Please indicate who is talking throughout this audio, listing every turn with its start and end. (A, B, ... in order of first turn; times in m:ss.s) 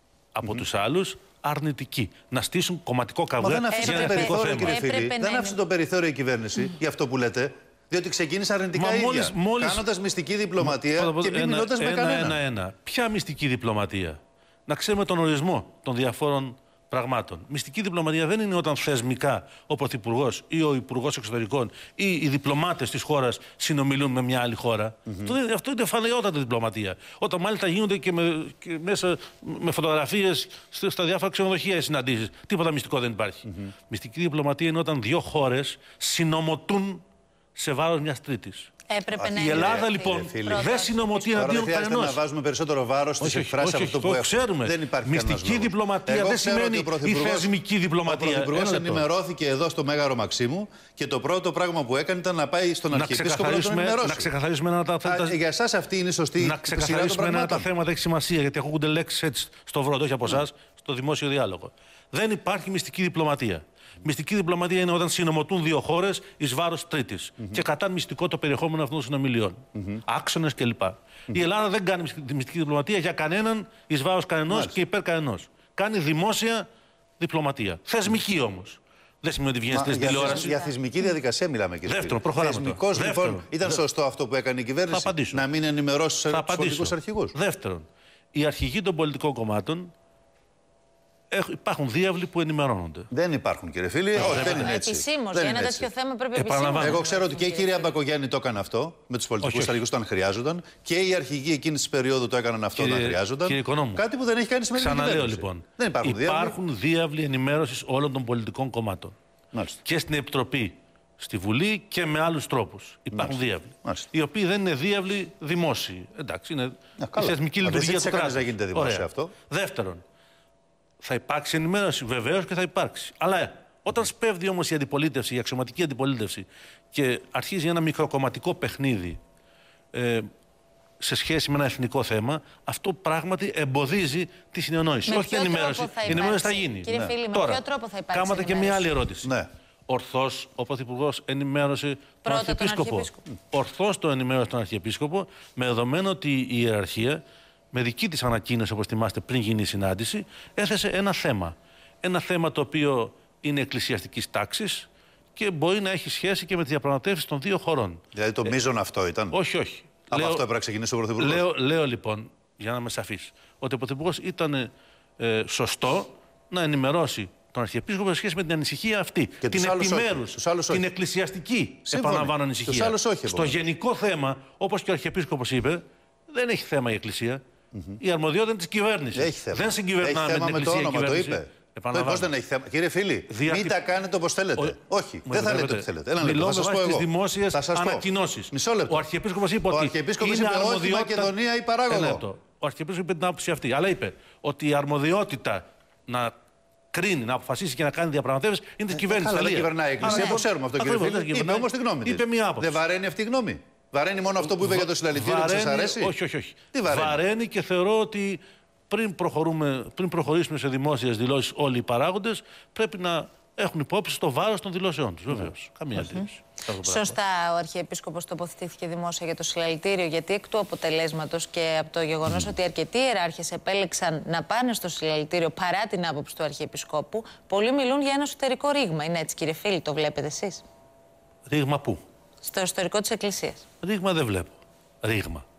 0:00.3-0:04.8 A
0:03.4-0:12.4 B
0:03.7-0:05.6 C
0:08.7-0:09.8 A
0:10.6-0:37.0 A
0:25.1-0:25.3 B
0:33.4-0:33.7 B
0:37.6-0:38.7 A
0:38.9-0:41.4 C
0:39.1-0:40.7 B
0:39.4-0:42.2 A
0:41.3-0:47.5 B
0:43.2-0:49.1 A
0:48.0-0:54.3 B
0:52.9-0:55.4 A
0:55.0-0:57.7 B
0:56.4-1:16.6 A
1:09.7-1:10.0 B
1:14.5-1:14.8 B
1:17.2-1:20.6 A
1:19.7-1:27.3 B
1:20.0-1:20.7 C
1:21.8-1:23.8 A
1:24.9-1:25.4 A
1:26.3-1:29.9 A
1:31.3-1:33.1 A
1:33.1-1:35.9 B
1:34.1-1:34.8 A
1:34.2-1:37.7 C
1:36.3-1:37.0 A
1:36.8-1:46.6 B
1:39.4-1:39.8 A
1:42.7-1:44.0 A
1:44.8-1:49.1 A
1:49.5-1:49.8 B
1:49.8-2:00.0 A
1:53.1-1:54.1 B
1:57.0-1:59.3 B
2:01.0-2:09.2 A
2:09.9-2:10.3 A
2:11.0-2:19.3 A
2:15.0-2:18.9 C
2:19.2-2:19.5 B
2:19.9-2:27.2 A
2:22.2-2:23.2 C
2:27.7-2:38.5 A
2:38.1-2:39.4 B
2:39.3-2:40.4 A
2:40.1-2:41.4 B
2:41.2-2:57.4 A
2:49.4-2:50.8 B
2:51.9-2:53.6 B
2:57.7-2:58.0 B
2:58.0-3:02.3 A
2:59.1-3:09.0 B
3:03.3-3:03.7 A
3:04.6-3:11.3 A
3:09.7-3:12.2 B
3:11.9-3:16.3 A
3:16.9-3:22.8 A
3:18.9-3:26.1 B
3:20.1-3:20.3 C
3:24.4-3:37.2 A
3:26.7-3:27.2 B
3:36.0-3:36.2 C
3:36.8-3:50.6 C
3:42.3-3:42.5 B
3:51.5-3:52.0 A
3:52.4-3:53.6 C
3:53.8-3:55.4 A